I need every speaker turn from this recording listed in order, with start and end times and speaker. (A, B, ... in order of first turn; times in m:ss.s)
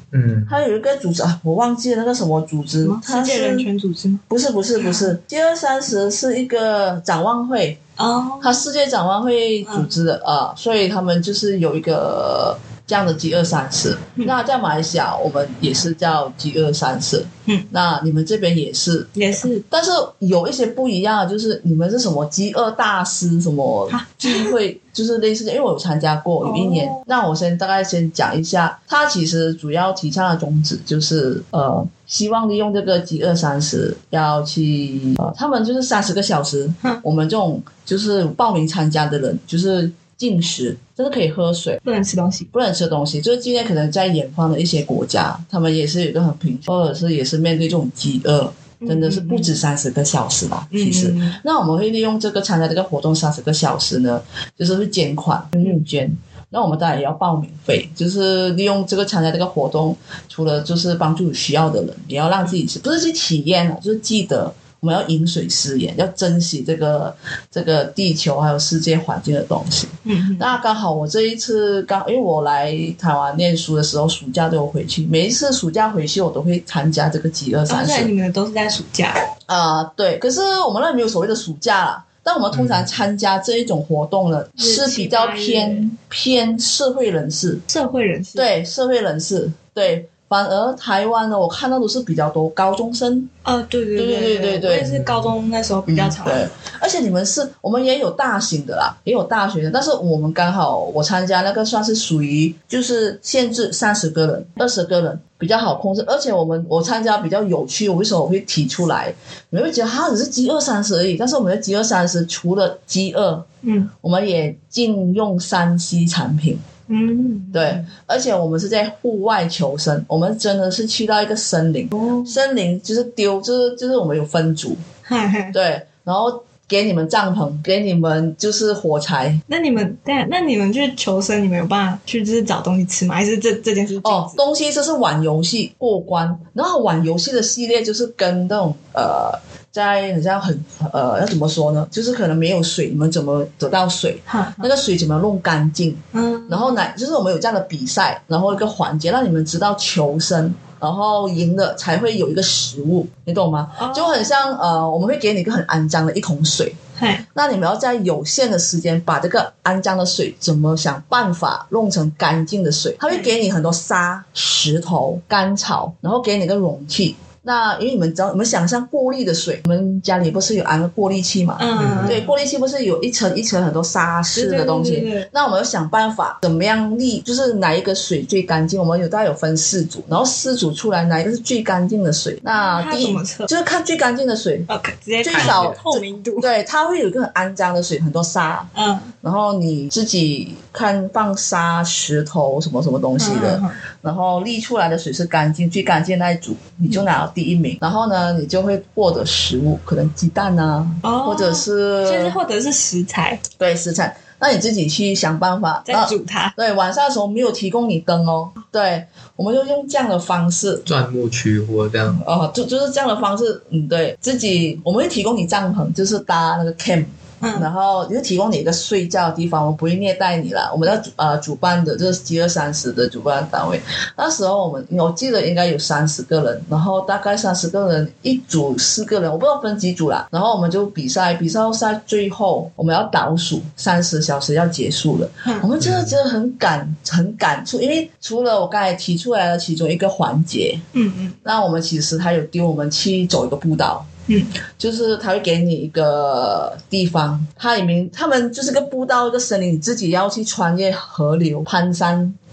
0:00.1-0:00.6 A
0:00.5-0:03.7 B
0:02.8-0:04.2 C
0:04.3-0:07.8 B
0:04.8-0:05.1 C
0:08.0-0:08.7 C
0:08.4-0:19.1 B
0:09.6-0:10.0 C
0:19.2-0:19.6 C
0:19.7-0:41.8 B
0:23.9-0:24.6 C
0:26.4-0:27.0 C
0:41.8-0:42.5 C
0:42.5-1:18.1 B
0:48.8-0:49.6 C
0:50.7-0:51.4 C
1:10.1-1:10.6 C
1:17.7-1:19.2 C
1:19.5-1:27.6 B
1:22.5-1:22.9 A
1:24.6-1:25.9 C
1:27.7-1:28.5 C
1:28.4-1:33.3 B
1:33.4-1:36.4 C
1:34.0-1:35.0 B
1:35.9-1:53.5 B
1:53.6-1:53.9 C
1:54.0-1:56.6 B
1:56.9-1:57.9 C
1:57.5-2:04.8 B
2:01.9-2:02.4 C
2:05.1-2:05.6 C
2:05.5-2:09.4 B
2:09.5-2:14.4 C
2:14.0-2:36.8 B
2:24.3-2:24.7 C
2:26.1-2:26.9 C
2:33.8-2:34.4 C
2:37.0-2:37.2 C
2:37.3-3:04.7 B
2:51.6-2:52.3 C
2:51.8-2:52.2 A
2:54.3-2:55.3 C
3:02.6-3:03.5 C
3:04.7-3:06.5 C
3:05.2-3:08.7 B
3:05.3-3:05.8 A
3:08.7-3:09.1 C
3:09.2-3:22.4 B
3:13.2-3:13.8 C
3:21.0-3:23.4 C
3:23.6-3:30.9 B
3:25.9-3:26.6 C
3:30.9-3:32.2 A
3:32.1-4:00.8 B
3:37.4-3:37.7 C
3:55.8-3:56.2 A
4:00.9-4:01.4 C
4:01.4-4:04.1 B
4:04.3-4:04.5 C
4:04.8-4:12.4 B